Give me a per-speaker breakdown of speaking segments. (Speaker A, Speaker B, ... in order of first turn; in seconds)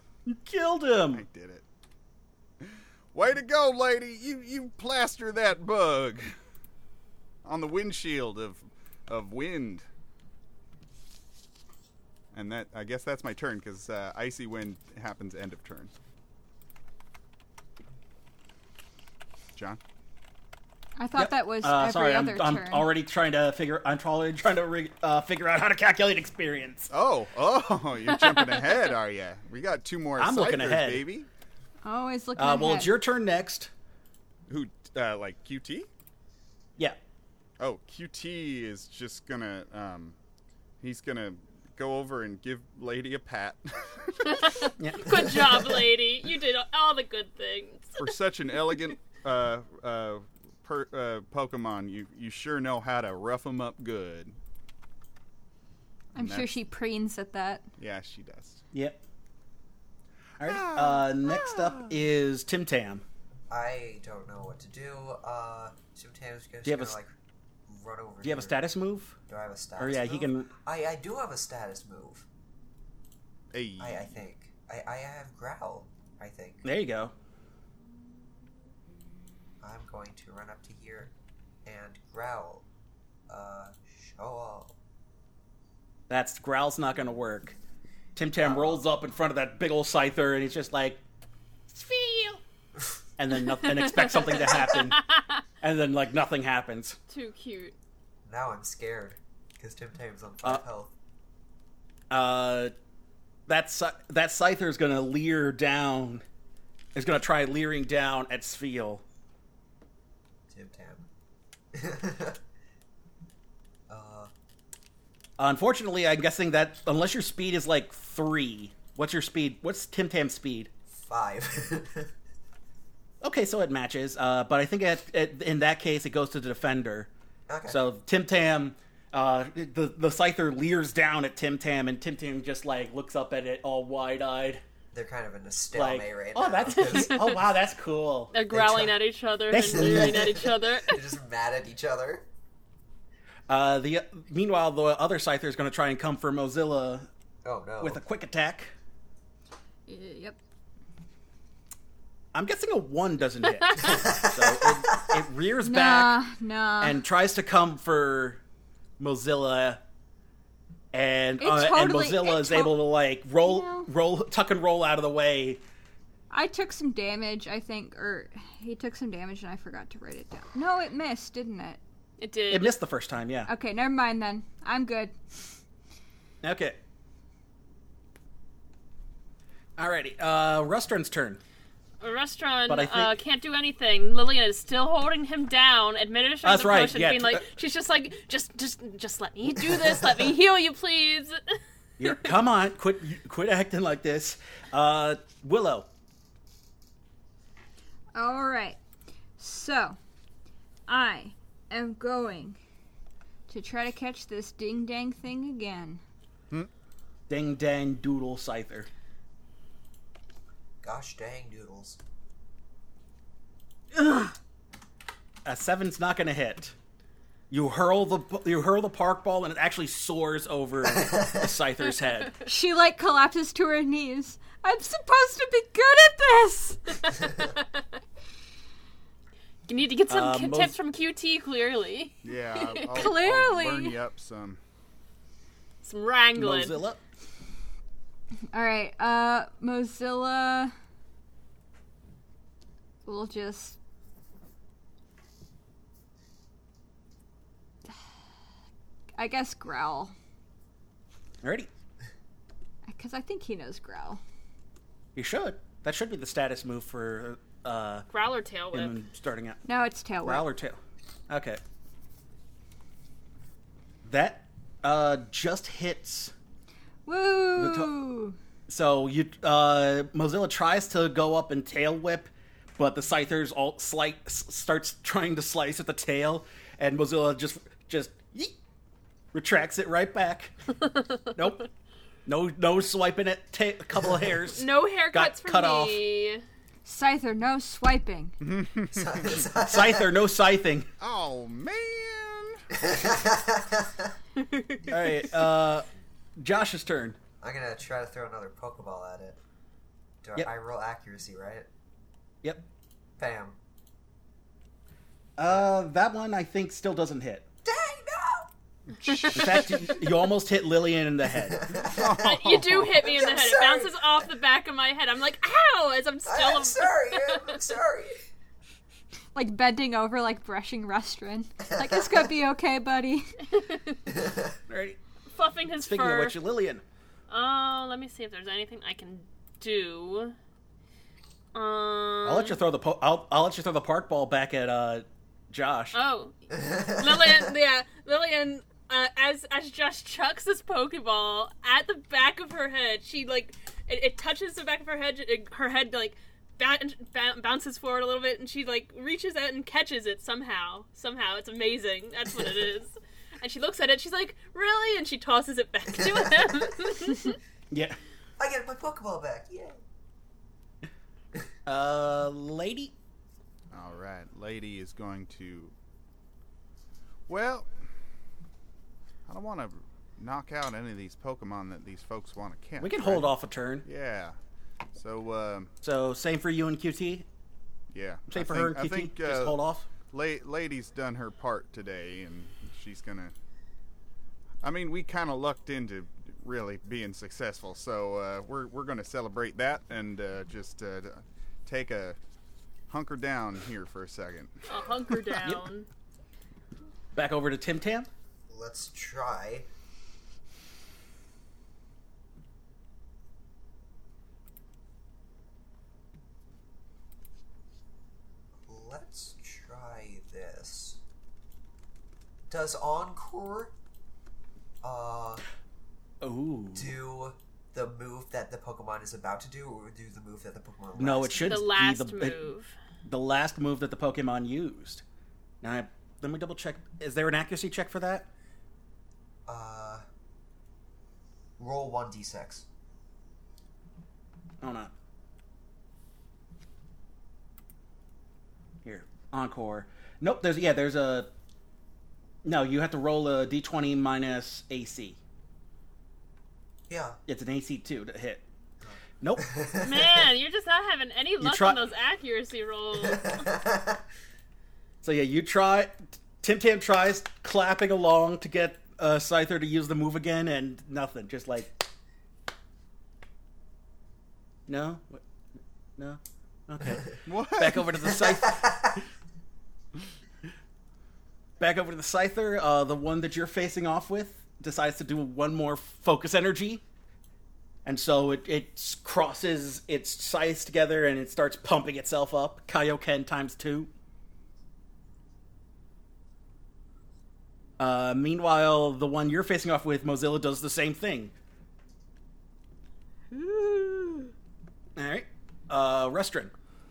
Speaker A: 0.3-1.2, 21.1-26.9, 30.2-31.1, 32.4-33.7, 44.8-45.5, 58.7-59.0, 60.4-63.0, 66.6-67.0, 68.2-69.2, 69.8-70.5, 76.6-77.1, 86.1-87.6, 88.2-91.0, 91.7-92.4, 93.2-95.0, 95.6-97.0, 102.1-102.7, 103.5-106.2, 106.9-109.0, 115.4-120.7, 123.2-127.1, 127.7-134.6, 135.7-138.3, 139.5-140.4, 143.5-147.1, 147.8-148.7, 152.3-156.2, 156.8-158.4, 159.0-159.8, 160.9-165.6, 172.5-173.5, 176.4-176.8, 179.8-181.4, 182.7-183.2, 186.4-187.5, 192.0-195.9, 207.3-208.9, 213.9-214.3, 215.4-216.7, 217.5-222.3, 230.1-230.8, 236.3-237.0, 251.4-251.7, 255.1-258.1, 258.7-259.6, 260.2-261.6, 264.0-266.3, 267.6-267.9, 268.7-278.5, 279.3-280.5, 281.3-281.7, 282.2-286.0, 289.5-290.9, 294.9-297.2, 305.4-307.5, 309.3-311.7, 324.7-325.0, 325.8-326.8, 332.2-336.0, 357.7-358.0, 361.6-362.9, 372.8-373.9, 375.8-377.2, 378.3-379.9, 395.4-395.7, 397.1-398.1, 416.2-417.0, 420.9-422.4, 423.1-425.0, 425.6-428.3, 434.6-434.9, 438.8-441.3, 442.4-445.2, 447.3-448.4, 449.2-449.4, 451.4-451.8, 455.0-461.8, 464.7-465.2, 466.0-469.0, 471.6-476.8, 477.8-483.9, 487.8-491.3, 494.9-496.5
Speaker B: 1.1-1.6, 2.6-6.3, 7.4-9.8, 12.3-15.9, 26.9-31.3, 34.5-35.9, 37.6-40.1, 40.8-44.7, 48.0-54.4, 56.1-56.5, 57.8-58.6, 60.4-61.9, 73.5-74.1, 232.2-234.6, 288.4-289.4, 291.0-292.6, 309.0-309.5, 311.8-313.0, 363.7-365.7, 367.3-367.7, 369.3-373.3, 373.8-374.4, 374.9-375.7, 377.9-383.3, 384.6-392.2, 392.9-394.5, 467.2-467.9
Speaker C: 21.0-22.9, 31.8-32.9, 56.1-57.6, 149.9-150.4, 155.6-157.0, 161.4-162.8, 163.4-163.9, 166.3-171.8, 173.5-175.1, 198.1-198.8, 199.4-200.0, 200.9-202.6, 203.5-206.0, 222.4-227.2, 232.9-234.0, 238.5-240.7, 243.0-243.8, 249.2-250.1, 252.9-254.2, 259.6-260.5, 267.1-268.4, 286.8-288.3, 319.3-323.4
Speaker D: 28.1-28.9, 44.2-48.1, 93.6-95.2, 97.1-97.7, 136.9-137.3, 138.3-141.0, 172.2-172.7, 182.0-192.3, 227.2-227.8, 229.7-233.1, 235.8-236.8, 258.1-258.9, 284.5-286.4, 294.4-295.1, 309.0-310.0, 312.2-317.6, 323.5-324.0, 325.3-326.4, 327.3-330.3, 331.5-332.6, 335.9-357.4, 394.7-395.9, 421.4-422.7, 449.8-453.5
Speaker E: 63.5-67.1, 67.7-68.6, 69.3-72.2, 73.8-76.7, 79.6-81.1, 81.6-82.7, 83.3-84.8, 88.4-88.8, 98.2-100.9, 110.5-111.1, 111.7-112.4, 113.9-114.3, 120.9-122.1, 127.5-127.8, 134.9-137.4, 138.5-139.0, 139.7-142.2, 147.4-148.0, 153.8-155.1, 210.8-212.0, 221.0-221.3, 288.9-290.1, 292.7-294.1, 297.4-299.4, 300.2-301.7, 303.2-303.6, 307.6-308.5, 311.4-312.2, 312.9-314.0, 316.3-318.2, 324.1-324.5, 356.0-356.7, 358.4-359.8, 398.5-399.7, 408.6-411.0, 412.5-413.7, 414.8-415.4, 416.7-421.6, 429.5-430.0, 431.6-432.6, 446.9-447.2, 448.8-450.2, 453.0-454.0, 468.2-469.0